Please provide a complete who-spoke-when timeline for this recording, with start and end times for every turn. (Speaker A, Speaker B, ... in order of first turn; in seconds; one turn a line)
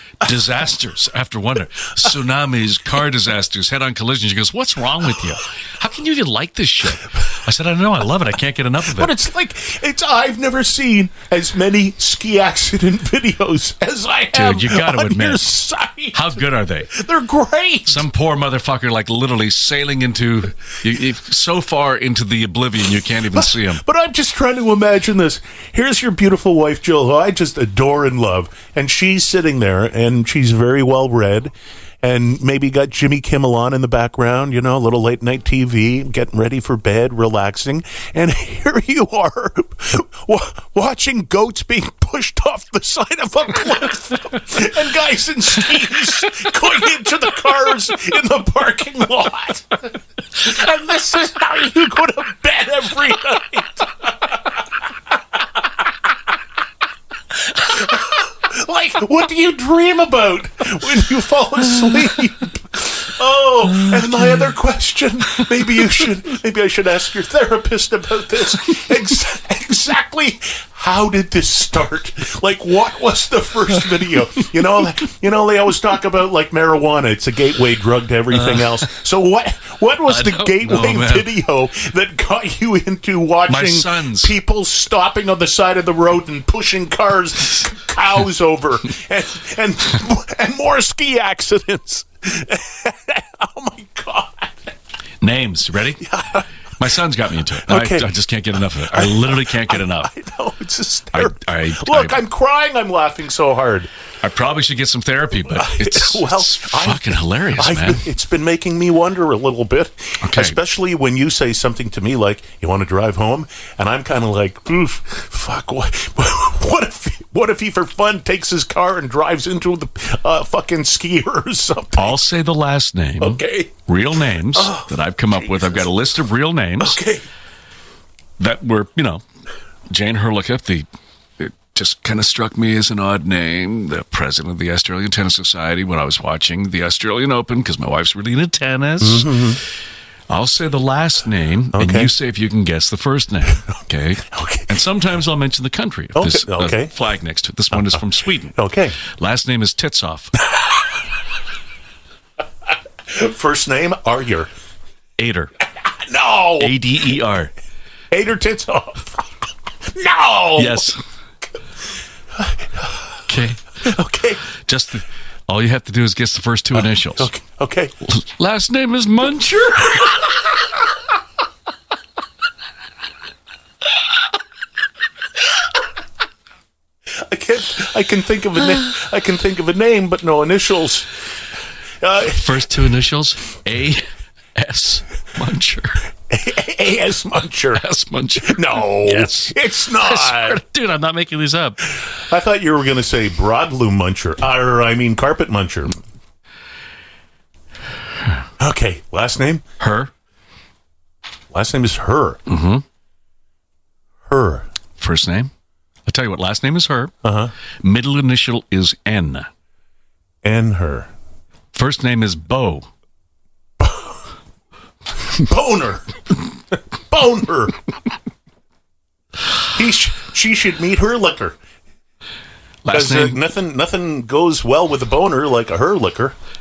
Speaker A: 0.2-9.2
Speaker B: 8.9-18.1
Speaker A: 14.3-15.4
Speaker A: 16.1-16.9
Speaker A: 17.9-23.8
Speaker B: 23.3-54.4
Speaker B: 57.6-94.7
Speaker A: 78.3-78.8
Speaker A: 80.1-81.3
Speaker A: 83.5-84.3
Speaker A: 95.2-96.0
Speaker B: 96.0-96.8
Speaker A: 96.8-100.1
Speaker B: 97.7-98.1
Speaker B: 98.8-103.9
Speaker A: 101.1-102.2
Speaker A: 104.2-108.0
Speaker B: 105.5-122.2
Speaker A: 110.2-110.5
Speaker A: 122.0-127.0
Speaker B: 123.2-125.9
Speaker B: 126.8-127.3
Speaker A: 128.4-129.2
Speaker A: 129.9-130.8
Speaker A: 131.4-139.4
Speaker B: 139.0-139.6
Speaker A: 140.3-150.4
Speaker B: 141.7-142.1
Speaker B: 144.3-144.8
Speaker B: 146.2-146.9
Speaker B: 147.7-148.0
Speaker B: 148.5-149.0
Speaker B: 153.1-154.5
Speaker A: 155.2-155.5
Speaker B: 155.7-156.8
Speaker A: 156.6-157.5
Speaker B: 158.1-160.9
Speaker A: 160.6-161.0
Speaker B: 162.4-163.0
Speaker A: 163.3-163.7
Speaker B: 163.8-164.5
Speaker A: 164.6-167.3
Speaker B: 166.7-167.9
Speaker A: 168.0-170.1
Speaker B: 177.1-181.2
Speaker B: 182.0-182.7
Speaker A: 182.3-186.0
Speaker B: 186.3-187.8
Speaker A: 187.7-191.8
Speaker B: 188.4-190.6
Speaker B: 192.0-196.0
Speaker B: 198.6-199.6
Speaker A: 199.8-200.1
Speaker B: 201.5-202.4
Speaker A: 202.5-202.8
Speaker B: 204.3-204.7
Speaker A: 205.0-205.5
Speaker A: 206.1-207.1
Speaker B: 207.2-207.5
Speaker A: 207.8-209.5
Speaker B: 210.4-211.1
Speaker A: 211.7-212.9
Speaker B: 213.8-214.1
Speaker B: 215.3-216.2
Speaker B: 216.9-217.8
Speaker B: 219.7-221.6
Speaker A: 222.8-223.4
Speaker B: 222.9-226.3